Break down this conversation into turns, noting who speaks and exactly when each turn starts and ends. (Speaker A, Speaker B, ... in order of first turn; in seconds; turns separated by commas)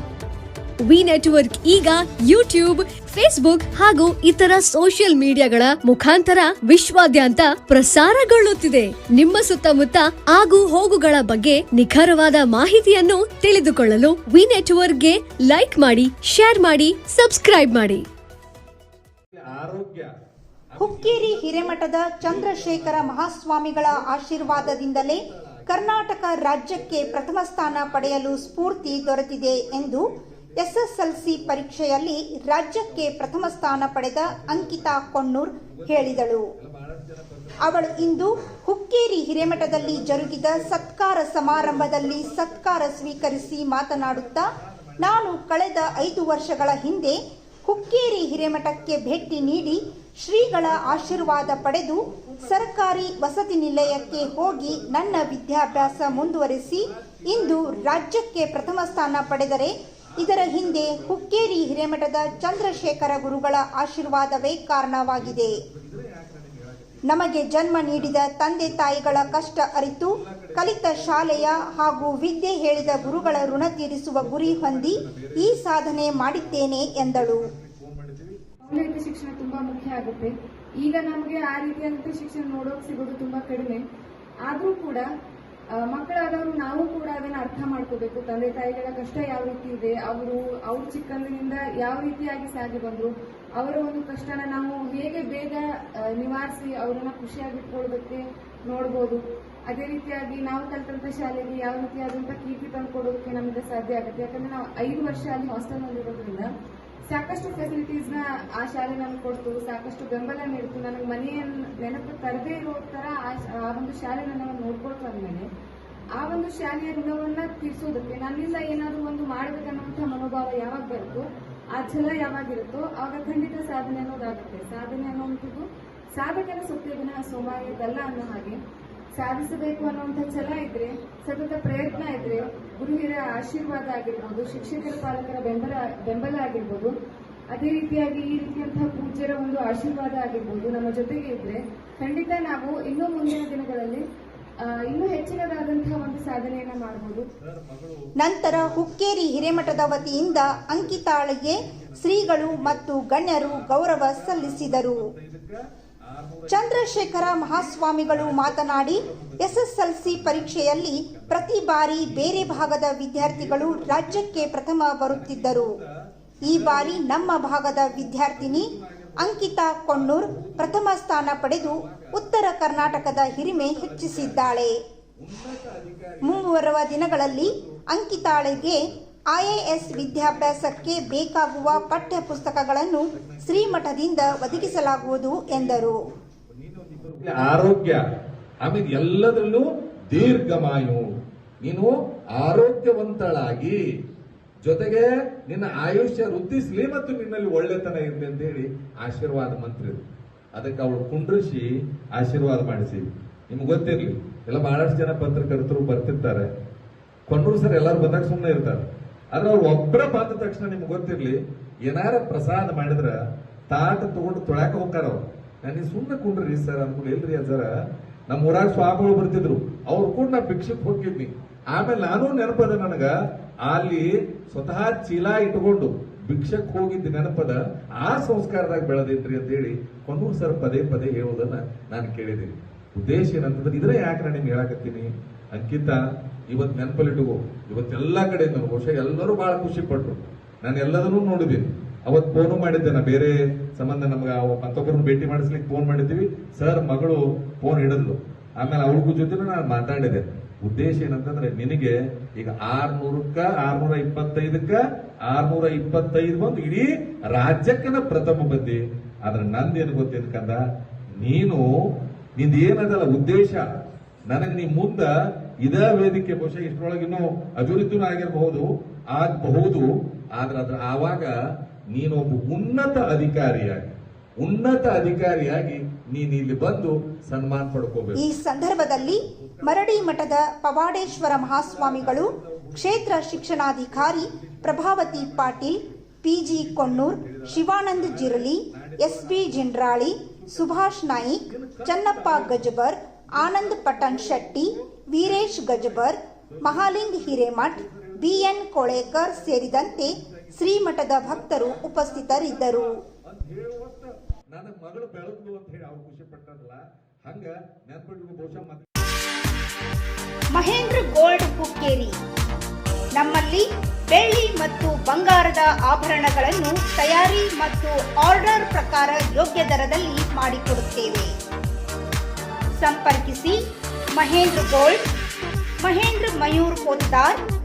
Speaker A: 0.8-18.1, Speaker B: 19.4-20.1, Speaker B: 20.7-32.1, Speaker C: 20.8-36.5, Speaker B: 32.7-38.6, Speaker C: 37.6-65.6, Speaker B: 39.4-40.9, Speaker B: 41.4-47.2, Speaker B: 47.7-49.8, Speaker B: 50.4-78.4, Speaker C: 67.1-77.5, Speaker D: 78.7-83.8, Speaker D: 84.4-85.1, Speaker D: 85.8-106.5, Speaker D: 107.1-115.5, Speaker D: 116.2-128.6, Speaker D: 129.2-136.9, Speaker D: 137.5-144.0, Speaker D: 144.6-147.3, Speaker B: 147.4-152.9, Speaker C: 148.2-155.0, Speaker B: 153.4-164.6, Speaker C: 156.5-165.7, Speaker B: 165.1-165.9, Speaker B: 166.4-174.6, Speaker C: 166.5-174.8, Speaker B: 175.2-188.0, Speaker C: 176.2-186.0, Speaker B: 188.6-191.1, Speaker B: 191.6-193.8, Speaker B: 194.6-200.0, Speaker B: 200.5-206.5, Speaker B: 207.3-213.2, Speaker B: 213.7-217.7, Speaker B: 218.3-223.1, Speaker B: 223.6-260.6, Speaker B: 261.2-261.7, Speaker B: 262.4-263.6, Speaker B: 264.3-271.3, Speaker B: 271.9-280.4, Speaker C: 278.1-302.9, Speaker B: 281.0-292.7, Speaker B: 293.4-308.9, Speaker C: 310.5-312.2, Speaker C: 313.2-321.3, Speaker C: 322.8-323.6, Speaker C: 324.2-325.0, Speaker C: 325.8-327.4